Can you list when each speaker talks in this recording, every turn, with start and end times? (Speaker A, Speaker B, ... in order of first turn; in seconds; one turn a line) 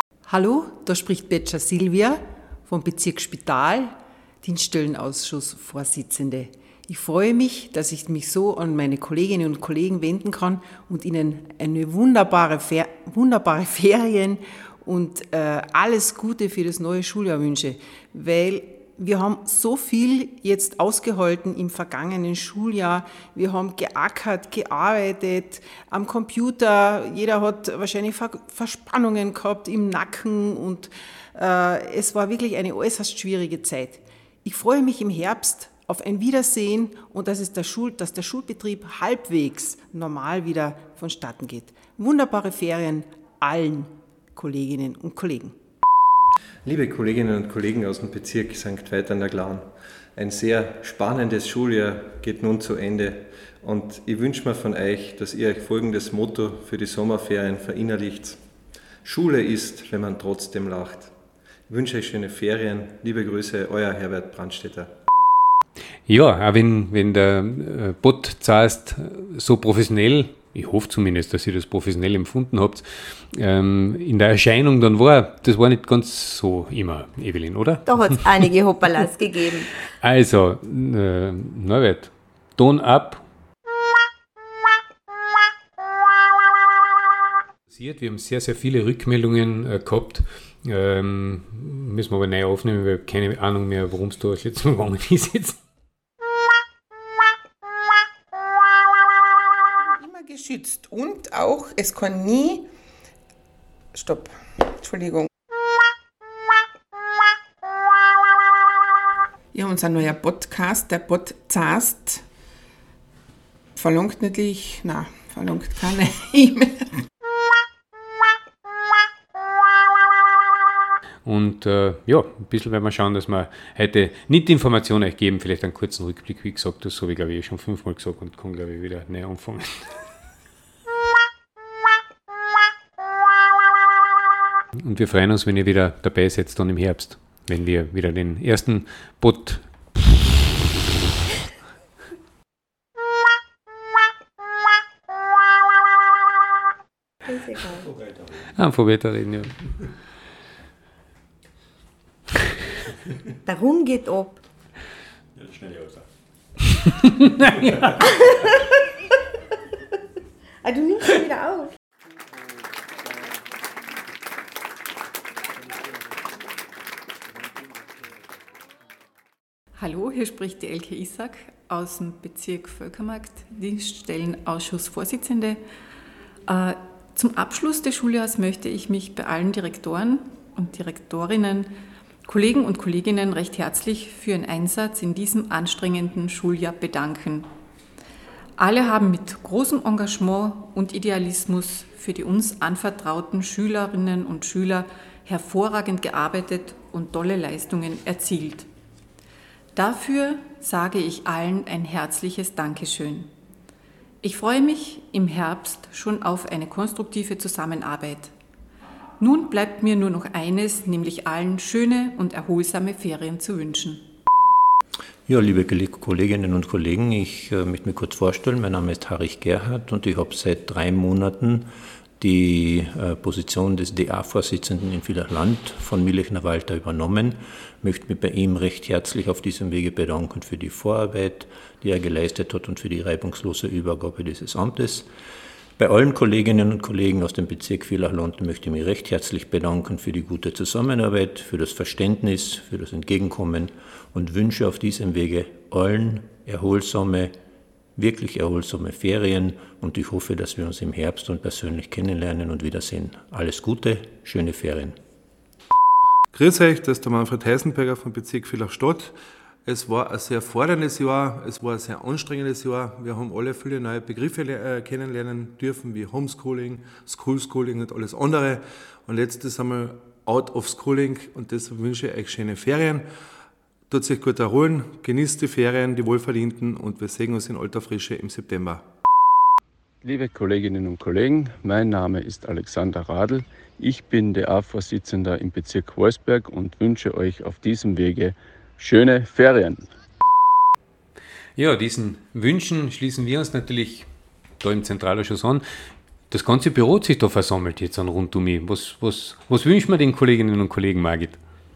Speaker A: 0.3-45.5
Speaker B: 46.6-58.4
Speaker B: 59.0-61.1
Speaker B: 61.7-64.9
Speaker C: 66.1-78.0
Speaker D: 77.8-79.7
Speaker C: 80.0-83.2
Speaker C: 87.7-95.6
Speaker E: 100.0-102.6
Speaker E: 104.0-104.3
Speaker E: 104.8-105.3
Speaker E: 109.5-112.2
Speaker E: 113.8-116.7
Speaker C: 121.2-130.0
Speaker C: 134.8-140.1
Speaker D: 147.2-147.9
Speaker C: 148.6-149.5
Speaker D: 153.4-154.4
Speaker D: 160.6-161.7
Speaker F: 169.8-175.6
Speaker F: 176.5-181.7
Speaker F: 182.3-187.5
Speaker F: 188.6-198.7
Speaker F: 199.8-203.3
Speaker F: 204.2-208.3
Speaker F: 209.2-214.0
Speaker G: 215.3-235.1
Speaker G: 235.8-247.3
Speaker G: 248.0-254.9
Speaker H: 256.3-259.1
Speaker H: 259.6-273.1
Speaker H: 273.9-278.8
Speaker I: 280.0-289.9
Speaker C: 291.6-294.1
Speaker C: 294.6-295.6
Speaker C: 296.3-301.4